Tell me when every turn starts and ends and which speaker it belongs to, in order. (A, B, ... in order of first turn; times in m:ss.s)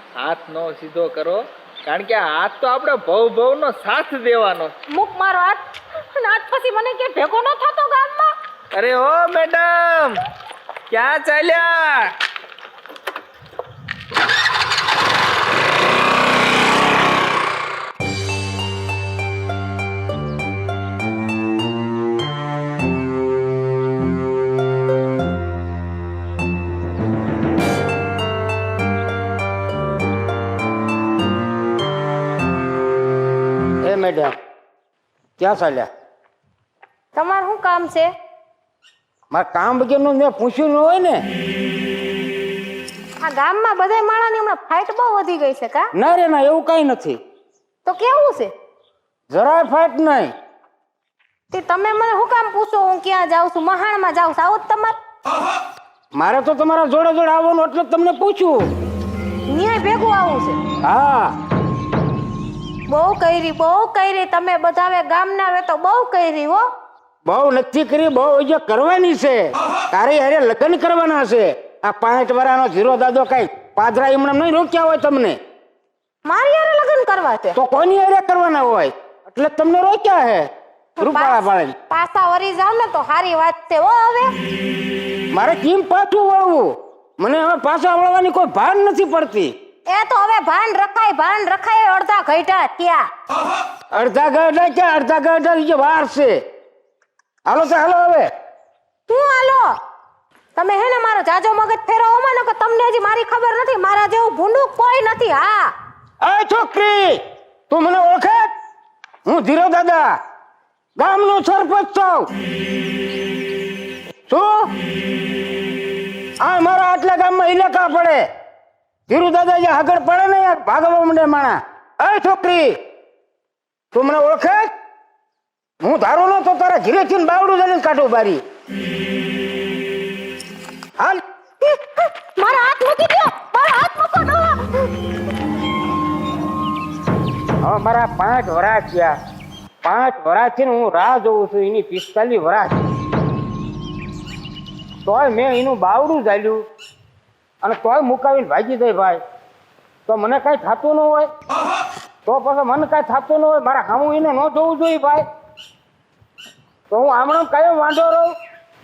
0:00.1-0:04.7 A
0:04.9-0:08.3 B
0:08.7-0:10.2 A
0:10.9-0:12.1 A
0:33.8-0:34.4 C
0:35.4-0:35.9 C
0:37.1-0:38.1 B
0:39.3-0:41.2 C
0:43.2-0:45.9 B
0:45.9-0:47.2 C
0:47.8-0:48.5 B
0:49.3-0:50.3 C
0:51.5-0:55.0 B
0:56.1-0:58.7 C
0:59.5-1:00.6 B
1:00.8-1:01.4 C
1:02.9-1:06.6 B
1:07.2-1:15.4 C
1:16.2-1:17.6 B
1:17.5-1:20.5 C
1:21.0-1:21.8 C
1:21.0-1:24.3 B
1:25.3-1:29.5 C
1:29.9-1:33.0 B
1:33.9-1:36.4 C
1:37.4-1:38.3 C
1:39.1-1:39.7 B
1:40.5-1:45.7 B
1:46.2-1:48.5 C
1:49.2-1:50.2 C
1:51.0-1:52.3 C
1:54.3-1:54.7 C
1:56.4-1:58.2 C
1:59.1-2:02.8 C
2:03.9-2:04.7 C
2:05.8-2:08.4 C
2:11.6-2:14.9 B
2:17.6-2:19.2 C
2:19.8-2:22.8 C
2:25.0-2:26.6 C
2:27.6-2:29.2 C
2:30.0-2:31.3 C
2:32.2-2:35.2 C
2:36.9-2:38.3 C